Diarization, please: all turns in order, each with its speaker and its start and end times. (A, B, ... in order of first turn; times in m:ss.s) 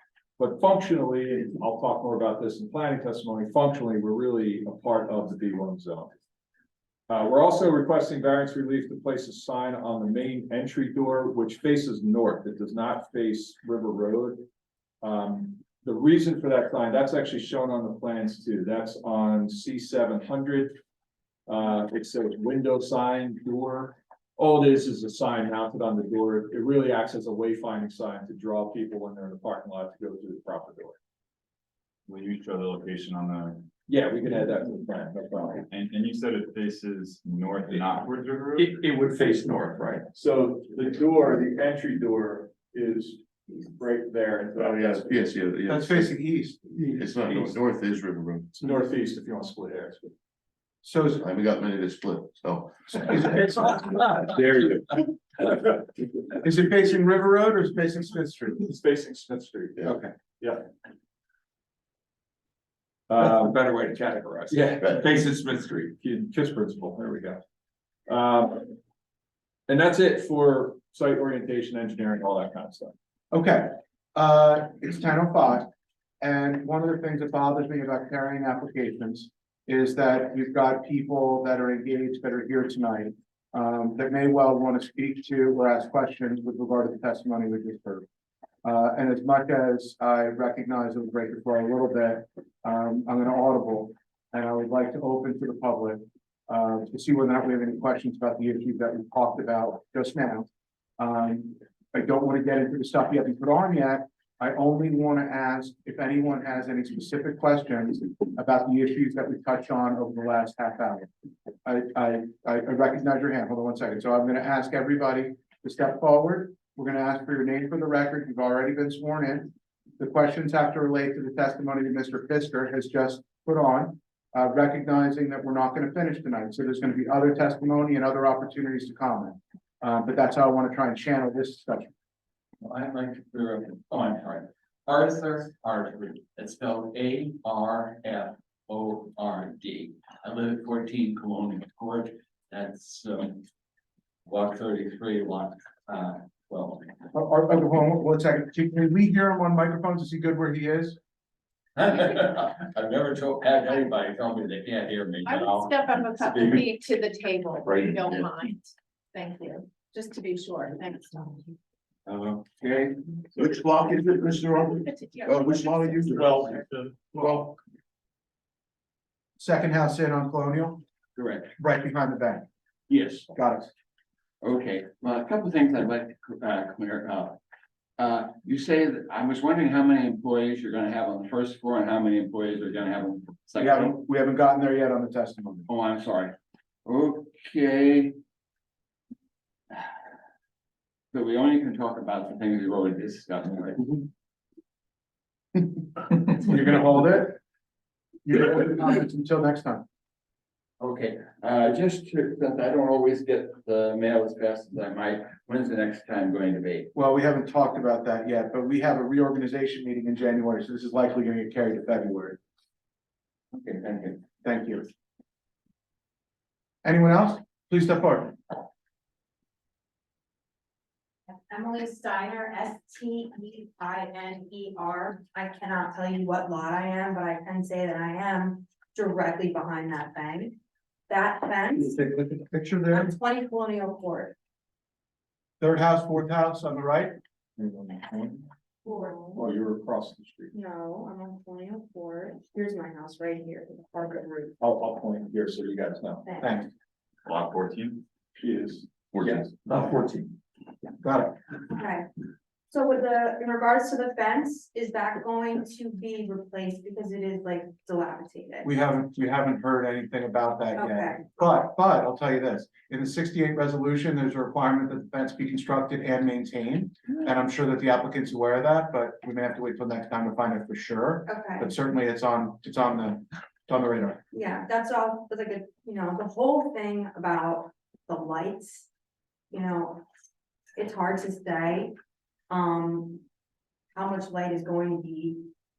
0:00.4-0:06.1 A
0:07.1-0:14.4 A
0:15.0-0:20.8 A
0:21.5-0:31.0 A
0:32.1-0:33.7 B
0:33.9-0:35.6 A
0:35.6-0:38.9 B
0:38.5-0:45.2 A
0:39.6-0:40.0 B
0:44.6-0:46.1 C
0:45.7-0:46.6 D
0:46.7-0:47.6 A
0:46.8-0:48.5 C
0:48.6-0:50.1 A
0:50.8-0:51.2 D
0:51.2-0:53.4 C
0:53.1-0:53.9 D
0:53.3-0:55.0 A
0:56.4-0:58.6 D
0:58.6-1:00.6 A
0:59.8-1:00.1 D
1:03.1-1:07.4 A
1:08.1-1:08.7 A
1:09.7-1:12.9 A
1:13.3-1:15.7 D
1:16.2-1:28.0 D
1:28.6-1:40.5 D
1:41.0-1:51.1 D
1:51.6-2:11.9 D
2:12.6-2:23.4 E
2:24.2-2:26.9 E
2:27.1-2:31.0 D
2:31.8-2:36.6 E
2:35.2-2:41.5 F
2:37.6-2:38.3 C
2:42.1-2:42.9 E
2:43.3-2:46.5 C
2:44.5-2:46.4 F
2:47.1-2:47.5 C
2:49.4-2:50.8 D
2:51.2-2:51.5 E
2:51.6-2:52.4 D
2:52.9-2:53.3 E
2:53.3-2:53.7 D
2:54.4-2:57.4 E
2:58.0-3:04.0 E
3:03.6-3:05.7 D
3:05.7-3:06.3 E
3:06.8-3:08.1 E
3:11.1-3:14.0 E
3:16.2-3:17.4 D
3:18.2-3:19.8 D
3:20.8-3:26.9 E
3:26.9-3:32.4 D
3:33.5-3:34.2 E
3:34.4-3:34.8 D
3:36.8-3:38.4 D
3:41.3-3:50.6 G
3:51.1-3:52.0 G
3:51.8-3:53.1 D
3:52.9-3:54.3 G
3:55.6-3:57.2 D
3:57.6-3:58.4 A
3:58.8-3:59.4 G
3:59.3-4:00.5 A
4:00.5-4:04.5 G
4:04.6-4:06.2 A
4:06.2-4:06.5 G
4:06.4-4:06.7 D
4:07.2-4:08.0 B
4:08.4-4:10.3 A
4:09.7-4:10.0 D
4:11.0-4:11.4 D
4:11.7-4:12.1 G
4:12.7-4:18.7 G
4:18.6-4:34.2 D
4:20.8-4:21.2 G
4:31.3-4:31.7 G
4:34.3-4:38.9 G
4:39.5-4:40.0 G
4:40.8-4:41.9 G
4:42.5-4:43.2 G
4:43.9-4:45.5 G